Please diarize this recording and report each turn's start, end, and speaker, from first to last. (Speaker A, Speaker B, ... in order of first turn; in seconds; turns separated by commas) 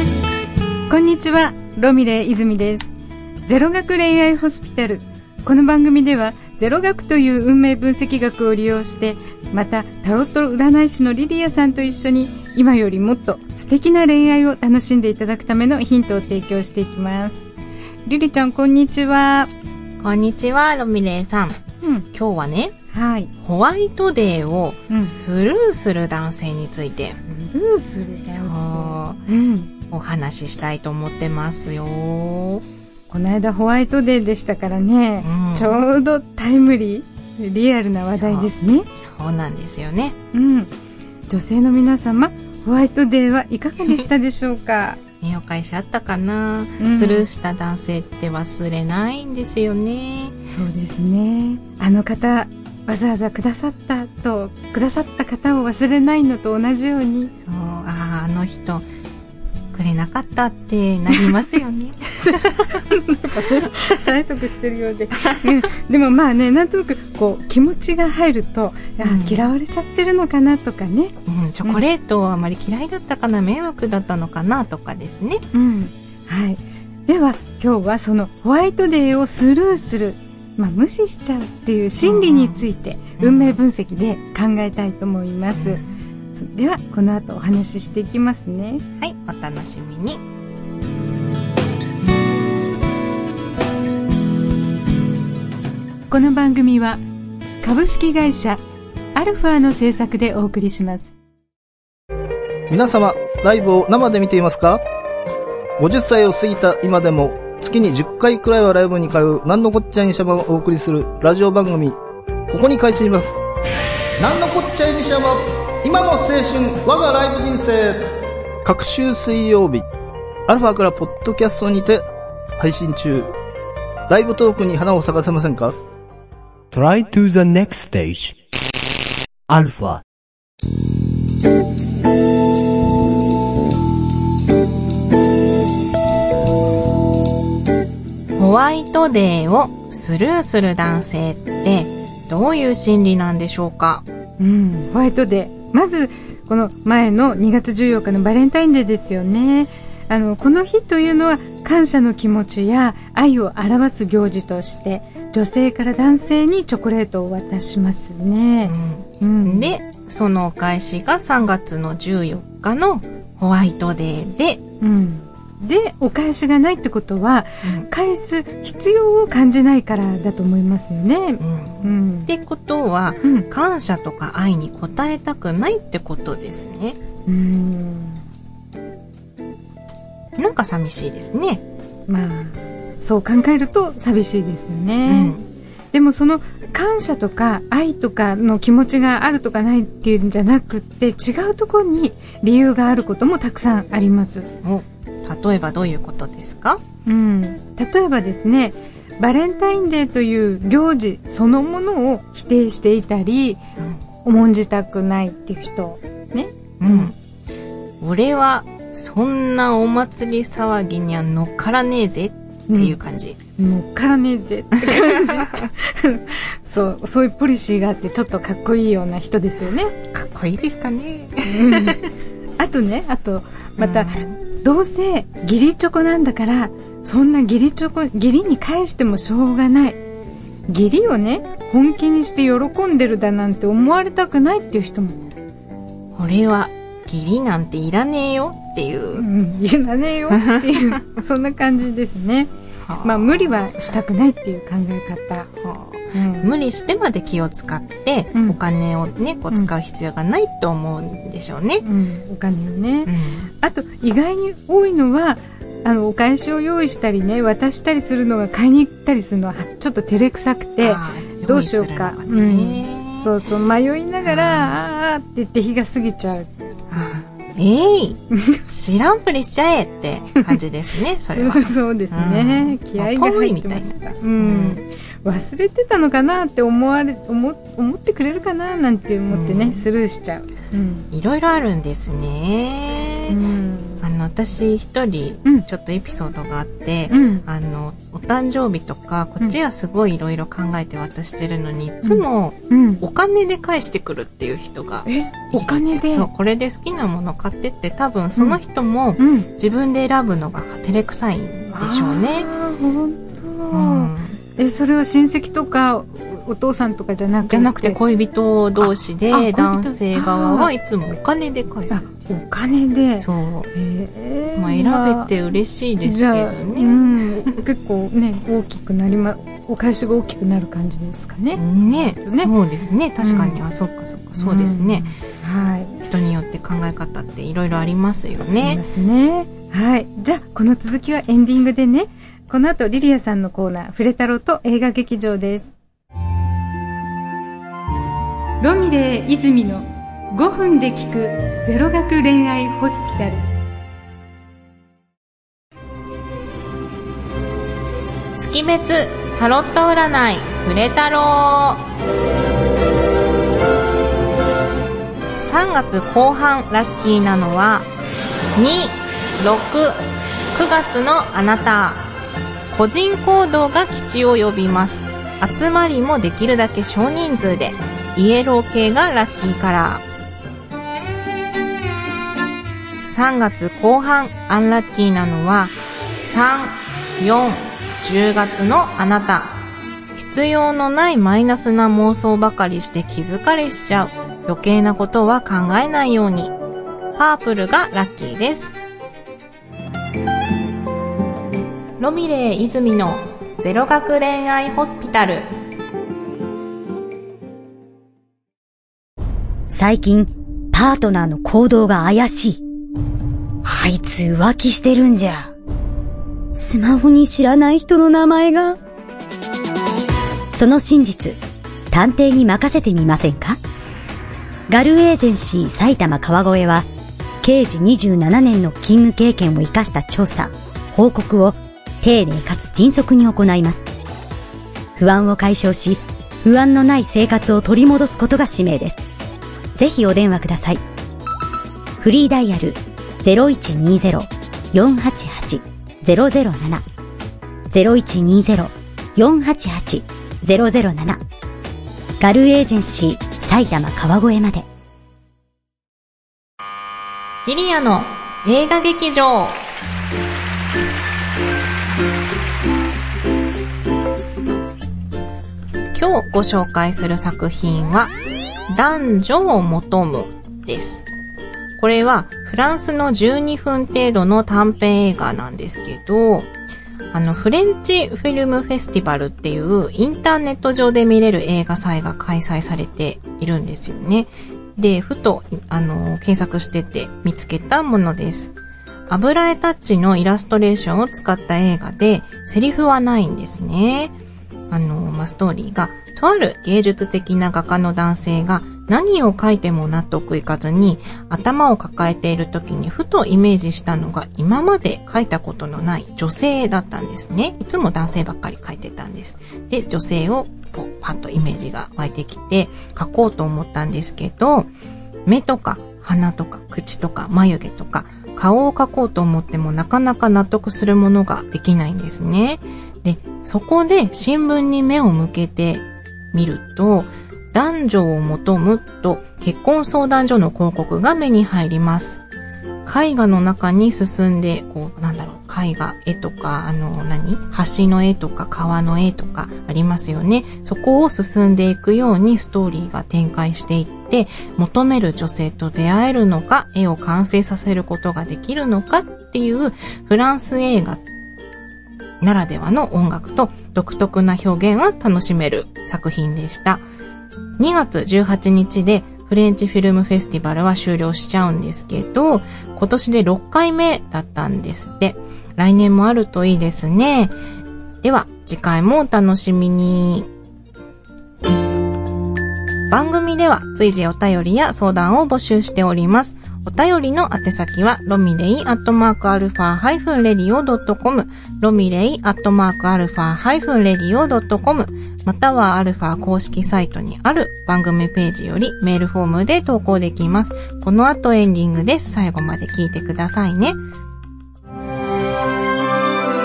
Speaker A: 0.9-2.9, Speaker A: 3.5-17.4, Speaker A: 18.1-19.5, Speaker B: 20.0-21.6, Speaker A: 21.8-22.1, Speaker B: 22.1-22.7, Speaker A: 22.9-23.3, Speaker B: 23.4-27.2, Speaker A: 27.1-29.7, Speaker B: 28.3-29.2, Speaker B: 29.9-32.6, Speaker A: 33.1-38.9, Speaker B: 35.2-35.8, Speaker B: 38.1-40.2, Speaker A: 40.3-40.7, Speaker A: 41.3-45.0, Speaker B: 45.2-50.4, Speaker A: 46.8-47.3, Speaker A: 50.5-57.3, Speaker B: 57.4-58.9, Speaker B: 59.7-62.8, Speaker A: 62.8-71.1, Speaker B: 69.0-69.4, Speaker B: 71.3-75.4, Speaker A: 75.5-85.8, Speaker B: 82.0-82.6, Speaker B: 83.2-83.6, Speaker B: 85.6-85.9, Speaker A: 86.3-88.8, Speaker B: 89.0-90.2, Speaker A: 96.1-97.0, Speaker A: 97.6-98.6, Speaker A: 99.1-101.1, Speaker C: 102.7-104.8, Speaker C: 105.8-112.0, Speaker C: 112.5-113.4, Speaker C: 114.2-118.0, Speaker C: 118.6-119.8, Speaker C: 120.5-122.1, Speaker C: 122.6-123.3, Speaker C: 124.1-125.8, Speaker D: 126.7-128.3, Speaker D: 129.5-130.0, Speaker B: 138.4-144.0, Speaker A: 144.4-159.7, Speaker B: 158.7-164.6, Speaker A: 164.8-172.3, Speaker B: 171.4-177.0, Speaker A: 177.2-178.2, Speaker B: 180.4-181.6, Speaker A: 182.1-185.3, Speaker B: 185.1-185.4, Speaker A: 185.9-194.5, Speaker B: 194.6-196.8, Speaker A: 197.1-203.6, Speaker A: 204.2-207.1, Speaker B: 206.8-207.2, Speaker B: 208.0-213.4, Speaker A: 212.7-213.0, Speaker A: 213.6-219.9, Speaker B: 214.9-215.6, Speaker B: 220.1-222.0, Speaker A: 221.5-222.0, Speaker A: 222.6-230.0, Speaker B: 223.8-224.3, Speaker A: 230.7-235.3, Speaker B: 236.2-239.2, Speaker A: 239.1-242.5, Speaker B: 240.3-241.0, Speaker B: 242.8-243.7, Speaker A: 243.0-245.5, Speaker B: 245.6-251.8, Speaker A: 246.1-246.5, Speaker A: 251.8-253.1, Speaker B: 253.1-253.5, Speaker A: 253.6-266.5, Speaker B: 260.8-263.3, Speaker B: 264.2-264.8, Speaker B: 266.9-274.8, Speaker A: 271.3-281.1, Speaker B: 279.3-279.9, Speaker B: 281.1-283.4, Speaker A: 283.3-284.0, Speaker B: 284.0-302.5, Speaker A: 287.1-287.4, Speaker A: 292.0-293.0, Speaker A: 295.1-296.3, Speaker A: 299.2-299.5, Speaker A: 301.7-308.0, Speaker B: 303.7-304.4, Speaker B: 307.5-312.1, Speaker A: 308.8-310.7, Speaker A: 311.9-315.3, Speaker B: 313.2-313.7, Speaker B: 314.6-317.5, Speaker A: 316.0-322.5, Speaker B: 321.6-325.1, Speaker A: 323.2-323.6, Speaker A: 324.4-325.9, Speaker B: 326.0-328.8, Speaker A: 328.6-335.7, Speaker A: 338.6-343.5, Speaker B: 348.4-351.8, Speaker B: 355.4-357.9, Speaker B: 358.6-360.0, Speaker B: 360.5-362.1, Speaker B: 362.7-370.0, Speaker B: 373.0-379.6, Speaker B: 380.2-386.6, Speaker B: 387.1-388.8, Speaker B: 392.0-395.5, Speaker E: 399.7-402.6, Speaker E: 403.7-405.5, Speaker E: 406.6-408.8, Speaker E: 410.5-411.4, Speaker E: 411.9-413.6, Speaker E: 414.7-416.9, Speaker E: 417.4-423.8, Speaker E: 425.0-429.0, Speaker E: 429.8-430.8, Speaker E: 432.0-436.8, Speaker E: 437.7-441.2, Speaker E: 442.2-444.7, Speaker B: 447.5-449.6, Speaker B: 455.9-458.1, Speaker B: 458.7-461.1, Speaker B: 461.8-466.5, Speaker B: 467.1-478.5, Speaker B: 479.1-484.1, Speaker B: 484.7-504.7, Speaker B: 505.3-522.2, Speaker B: 522.9-541.0, Speaker B: 542.2-546.9, Speaker B: 547.6-557.3, Speaker B: 558.0-560.3, Speaker B: 562.9-583.8